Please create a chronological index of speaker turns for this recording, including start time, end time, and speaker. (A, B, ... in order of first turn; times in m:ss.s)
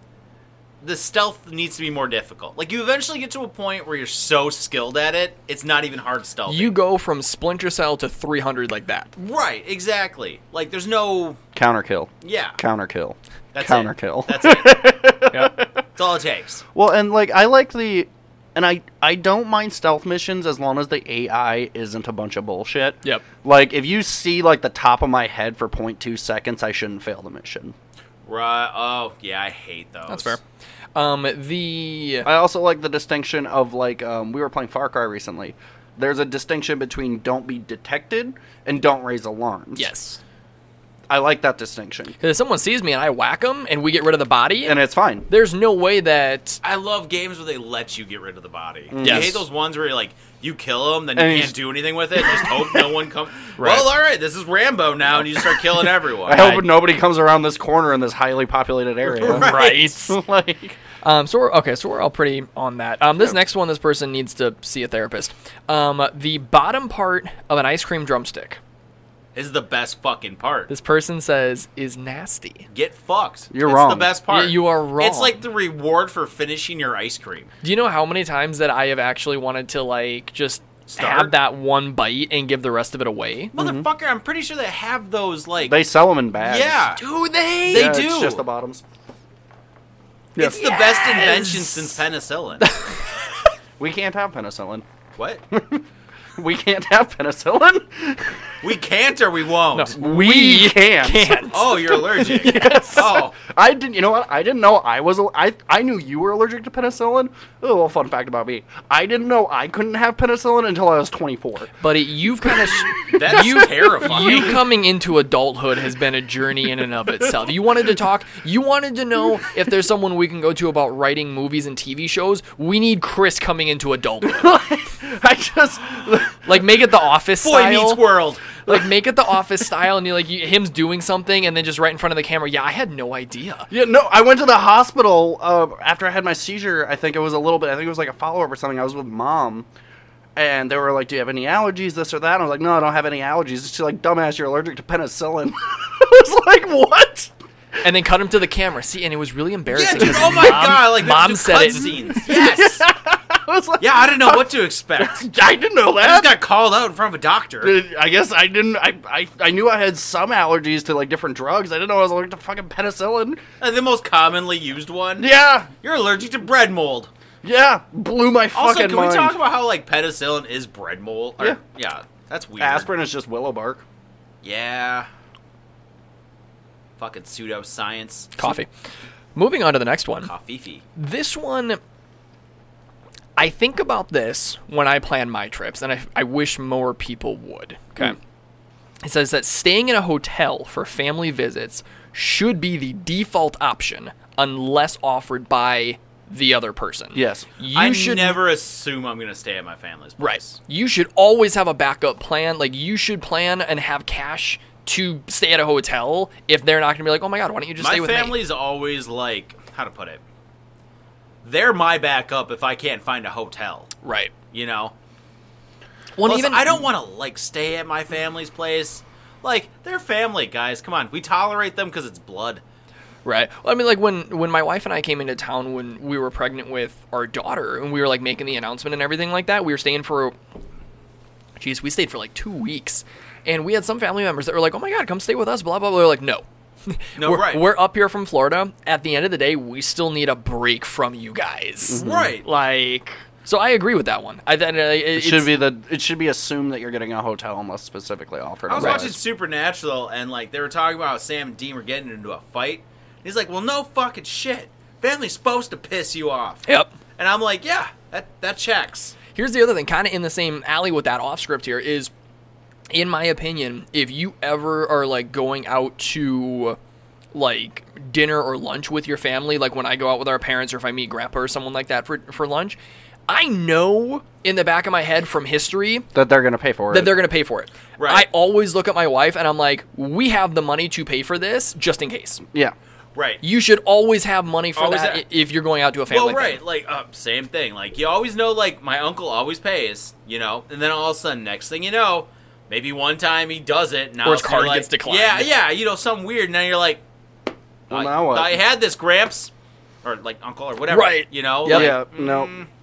0:00.8-0:06.7 A
0:06.5-0:09.1 B
0:09.2-0:11.4 A
0:11.5-0:15.8 C
0:12.2-0:12.6 A
0:13.5-0:14.8 A
0:15.3-0:15.6 B
0:16.0-0:16.6 A
0:16.7-0:27.7 C
0:28.2-0:30.4 A
0:30.1-0:30.4 B
0:30.9-0:32.3 B
0:32.2-0:39.9 C
0:39.8-0:40.2 B
0:41.1-0:42.2 C
0:42.2-0:46.6 B
0:44.6-0:45.3 C
0:46.6-0:56.4 A
0:48.9-0:49.4 C
0:49.0-0:49.4 B
0:51.2-0:51.6 C
0:52.2-0:52.9 C
0:53.6-0:53.9 B
0:55.4-0:55.6 C
0:56.2-1:00.8 C
0:56.3-0:56.7 B
0:59.1-0:59.9 A
0:59.2-1:00.2 B
1:01.0-1:08.6 B
1:09.3-1:10.7 A
1:10.7-1:12.6 B
1:12.7-1:17.5 A
1:13.5-1:14.1 C
1:14.3-1:15.4 B
1:17.6-1:23.5 B
1:20.9-1:21.3 A
1:23.5-1:25.8 A
1:23.5-1:23.8 C
1:25.6-1:26.9 C
1:26.4-1:27.0 A
1:27.0-1:28.0 B
1:27.6-1:28.4 A
1:27.7-1:28.8 C
1:30.4-1:32.0 B
1:30.4-1:32.7 A
1:32.6-1:33.0 B
1:33.8-1:34.8 C
1:35.5-1:35.8 C
1:36.4-1:38.5 C
1:38.6-1:40.0 A
1:39.7-1:43.1 B
1:39.9-1:41.4 C
1:41.5-1:43.4 A
1:42.2-1:51.7 C
1:51.8-2:04.5 B
1:52.4-1:54.5 C
1:53.1-1:54.6 A
2:04.2-2:06.6 C
2:06.4-2:08.0 B
2:07.4-2:08.6 A
2:08.6-2:13.7 B
2:13.7-2:19.7 C
2:20.4-2:27.3 C
2:27.8-2:32.0 B
2:29.7-2:32.8 A
2:30.1-2:30.7 C
2:32.2-2:36.4 C
2:33.8-2:35.3 A
2:36.0-2:37.8 A
2:37.6-2:43.4 C
2:43.6-2:45.3 A
2:45.2-2:45.7 C
2:45.8-2:47.1 A
2:47.4-2:49.4 C
2:48.5-2:52.9 A
2:52.6-2:53.8 C
2:54.4-2:55.1 A
2:57.0-2:58.3 A
2:58.4-2:58.7 B
2:59.3-3:00.3 B
3:00.2-3:00.8 A
3:01.0-3:01.8 B
3:03.4-3:08.2 B
3:09.0-3:18.4 B
3:17.1-3:17.5 C
3:17.7-3:20.6 A
3:20.2-3:28.4 B
3:27.8-3:30.2 A
3:31.4-3:33.9 A
3:34.0-3:34.3 B
3:34.5-3:34.9 A
3:36.2-3:36.8 B
3:36.2-3:42.6 A
3:43.2-3:50.3 B
3:51.6-4:05.5 B
3:57.2-3:57.6 A
4:01.9-4:02.3 C
4:02.0-4:02.4 A
4:05.1-4:09.2 C
4:08.7-4:16.6 A
4:08.8-4:09.1 B
4:16.7-4:17.0 B
4:17.2-4:19.2 A
4:19.3-4:22.1 B
4:22.9-4:26.8 B
4:27.3-4:36.0 B
4:36.1-4:37.2 C
4:36.9-4:42.4 B
4:38.0-4:38.2 A
4:43.1-4:43.4 A
4:43.4-4:46.6 B
4:44.8-4:45.2 A
4:46.1-4:57.0 A
4:54.2-4:55.5 B
4:57.9-4:58.6 C
4:57.9-4:59.5 A
5:00.0-5:02.7 A
5:00.9-5:02.0 B
5:01.7-5:02.5 C